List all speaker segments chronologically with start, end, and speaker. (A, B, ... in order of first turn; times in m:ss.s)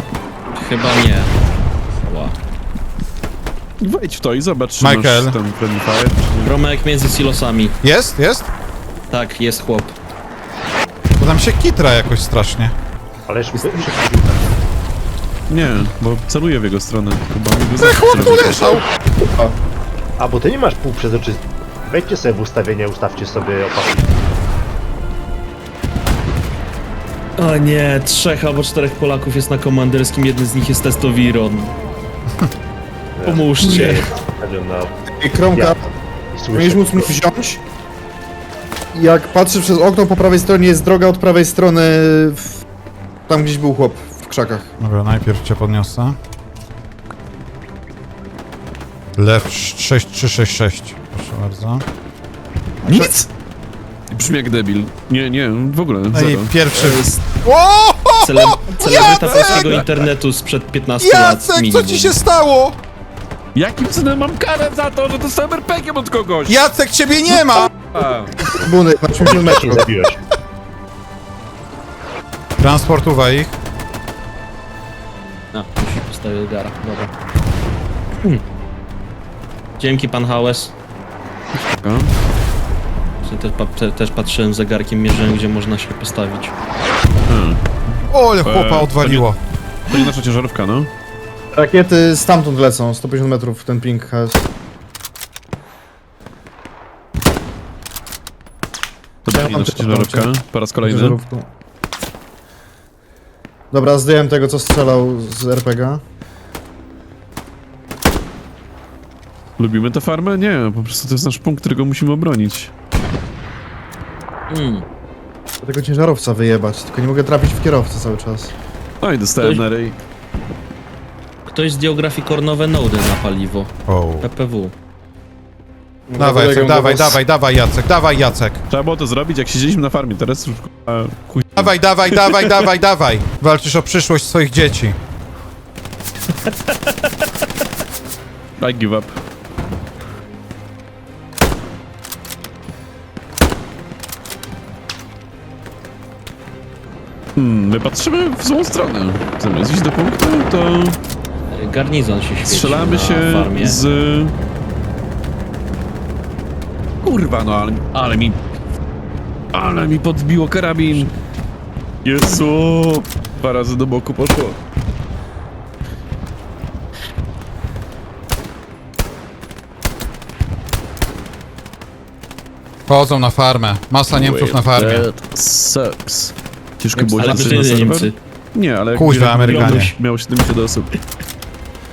0:00.5-0:01.3 A
0:02.0-0:02.4 A
0:03.8-0:06.5 B
0:04.8-0:05.4 C
0:06.4-0:07.8 A
0:07.8-0:08.5 C
0:09.1-0:09.9 A
0:11.2-0:12.7 C
0:13.3-0:14.4 D
0:13.5-0:13.9 E
0:15.5-0:18.8 B
0:17.8-0:18.8 C
0:20.2-0:24.1 D
0:27.4-0:31.7 A
0:33.2-0:34.9 D
0:33.2-0:34.1 A
0:35.1-0:35.8 E
0:35.5-0:35.8 D
0:36.3-0:37.2 D
0:36.5-0:37.6 E
0:38.9-0:42.6 E
0:43.3-0:44.8 E
0:44.8-0:46.2 C
0:49.2-0:51.8 C
0:52.8-0:53.1 C
0:52.8-0:53.3 B
0:54.1-0:57.2 B
0:56.1-0:59.7 C
0:58.2-1:02.2 A
0:59.0-0:59.9 B
1:01.0-1:02.8 C
1:03.5-1:06.6 B
1:06.5-1:07.7 C
1:07.3-1:08.4 B
1:08.6-1:10.0 E
1:09.2-1:10.2 D
1:12.6-1:13.5 C
1:15.5-1:17.1 A
1:19.8-1:20.8 A
1:21.5-1:22.1 B
1:23.2-1:26.6 A
1:27.3-1:27.6 B
1:28.1-1:29.4 C
1:28.4-1:29.3 B
1:29.9-1:30.9 B
1:31.5-1:34.5 E
1:39.2-1:41.2 B
1:39.3-1:41.5 E
1:43.7-1:46.0 E
1:49.6-1:52.7 B
1:54.5-1:54.9 A
1:55.6-1:58.5 E
1:59.0-2:00.0 B
2:01.5-2:04.7 A
2:03.9-2:04.3 C
2:06.1-2:07.2 E
2:06.2-2:08.6 C
2:08.7-2:12.6 B
2:11.6-2:15.0 C
2:18.6-2:19.2 B
2:27.4-2:31.0 B
2:31.5-2:33.8 A
2:32.5-2:34.4 B
2:37.0-2:38.4 B
2:39.5-2:41.1 B
2:42.0-2:44.6 B
2:52.9-2:55.1 C
2:54.1-3:00.9 B
2:57.0-2:58.2 A
2:59.0-2:59.9 C
2:59.5-3:00.0 A